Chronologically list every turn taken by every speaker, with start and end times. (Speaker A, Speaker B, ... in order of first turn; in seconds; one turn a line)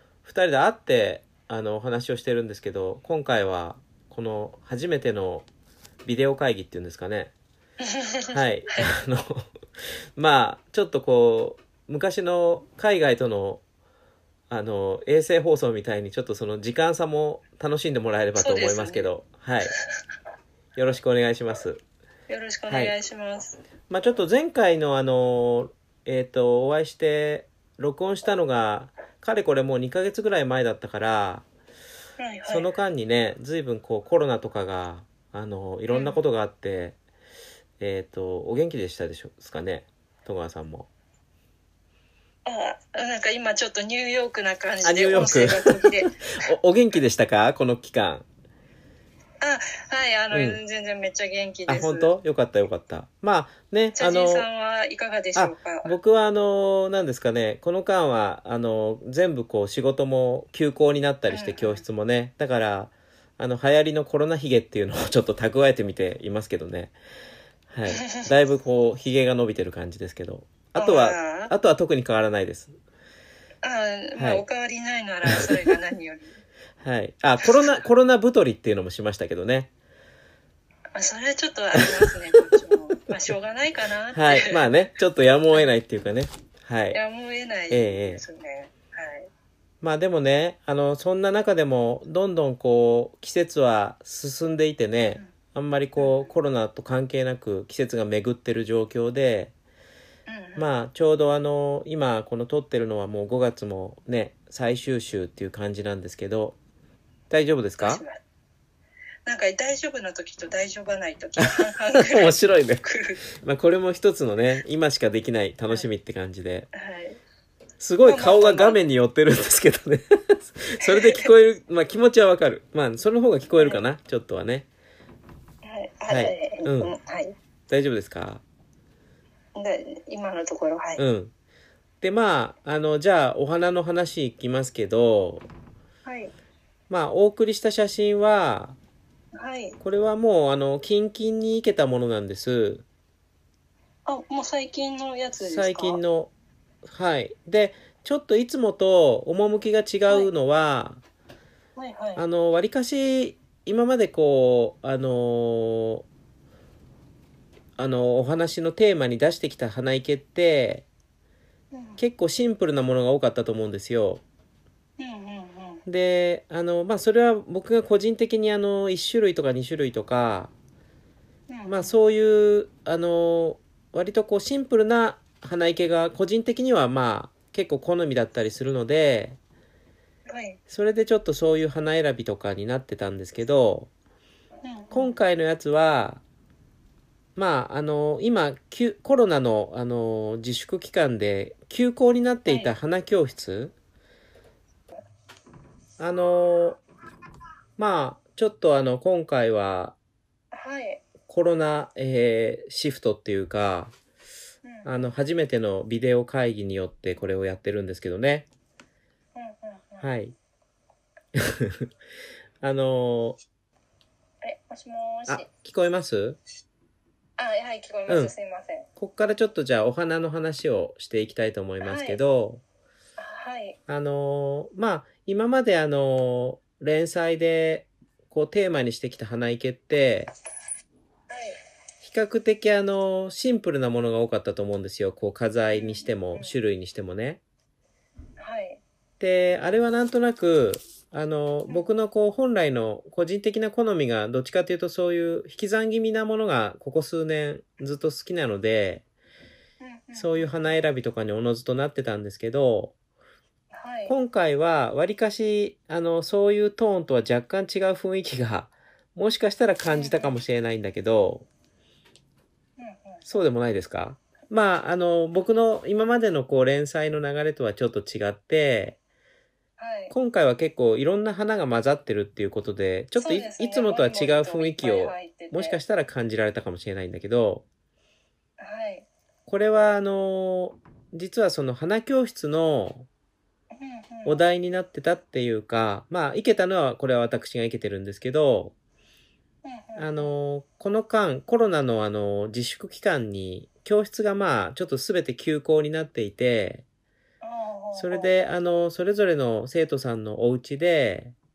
Speaker A: 0.2-5.5
Speaker A: 6.0-7.3
Speaker B: 7.8-8.9
Speaker A: 8.3-9.4
Speaker A: 10.2-13.6
Speaker A: 14.5-19.7
Speaker B: 18.3-19.1
Speaker B: 19.7-19.9
Speaker A: 20.8-21.8
Speaker B: 22.3-23.6
Speaker A: 22.7-22.9
Speaker A: 23.9-31.4
Speaker B: 32.2-32.7
Speaker A: 32.5-37.0
Speaker B: 35.9-36.2
Speaker A: 37.8-40.9
Speaker B: 42.5-46.1
Speaker A: 44.8-48.2
Speaker B: 49.4-52.1
Speaker A: 50.3-50.6
Speaker A: 51.7-54.5
Speaker B: 53.9-55.9
Speaker A: 55.4-66.9
Speaker B: 61.3-61.8
Speaker A: 67.7-72.8
Speaker B: 67.9-68.3
Speaker B: 70.8-71.5
Speaker B: 73.6-76.4
Speaker A: 74.2-74.4
Speaker A: 76.8-79.7
Speaker B: 80.9-84.6
Speaker A: 81.8-82.1
Speaker A: 84.1-87.0
Speaker B: 86.9-89.3
Speaker A: 87.7-88.2
Speaker A: 89.8-99.5
Speaker B: 96.0-96.3
Speaker B: 100.3-100.7
Speaker A: 100.6-106.6
Speaker A: 107.3-108.0
Speaker B: 107.8-108.2
Speaker B: 109.2-113.2
Speaker A: 111.4-112.8
Speaker A: 113.4-116.7
Speaker B: 116.7-117.2
Speaker A: 117.8-124.7
Speaker B: 118.0-118.8
Speaker B: 120.8-121.3
Speaker B: 125.6-127.3
Speaker A: 126.1-126.9
Speaker A: 127.7-128.4
Speaker B: 129.5-131.0
Speaker A: 131.0-131.3
Speaker A: 132.0-135.5
Speaker B: 136.0-136.3
Speaker A: 136.9-138.8
Speaker B: 139.3-139.8
Speaker A: 139.8-142.8
Speaker B: 144.1-146.0
Speaker A: 145.4-146.3
Speaker A: 146.8-151.0
Speaker B: 151.8-152.2
Speaker A: 152.2-156.1
Speaker A: 157.8-160.9
Speaker B: 161.7-162.0
Speaker A: 162.0-164.2
Speaker B: 165.0-165.8
Speaker A: 165.8-170.5
Speaker B: 171.5-171.9
Speaker A: 171.7-179.4
Speaker B: 180.3-180.6
Speaker A: 180.7-183.9
Speaker B: 184.6-185.2
Speaker A: 184.9-186.2
Speaker A: 187.3-193.7
Speaker B: 192.4-192.7
Speaker A: 196.0-196.8
Speaker A: 197.8-199.9
Speaker B: 200.5-201.0
Speaker A: 201.3-203.9
Speaker B: 204.6-205.1
Speaker A: 204.8-208.5
Speaker B: 209.3-210.1
Speaker A: 210.0-210.3
Speaker A: 211.4-211.7
Speaker A: 212.6-213.4
Speaker B: 214.4-215.5
Speaker A: 215.3-216.4
Speaker B: 217.4-218.9
Speaker A: 218.1-218.3
Speaker A: 218.9-222.6
Speaker B: 221.8-222.2
Speaker B: 223.2-223.8
Speaker A: 223.9-230.3
Speaker B: 231.3-231.6
Speaker A: 232.0-237.4
Speaker B: 235.7-236.6
Speaker B: 238.4-238.8
Speaker A: 239.2-249.0
Speaker B: 249.8-250.8
Speaker A: 250.1-252.9
Speaker B: 253.7-254.2
Speaker A: 254.1-261.5
Speaker B: 259.9-260.3
Speaker B: 262.8-263.4
Speaker A: 263.3-269.0
Speaker B: 269.8-270.1
Speaker A: 270.1-277.6
Speaker B: 273.1-275.8
Speaker B: 278.6-279.1
Speaker A: 279.4-283.1
Speaker B: 283.7-284.4
Speaker A: 284.2-288.7
Speaker B: 289.6-290.3
Speaker A: 289.9-296.8
Speaker B: 297.4-298.3
Speaker A: 297.9-301.3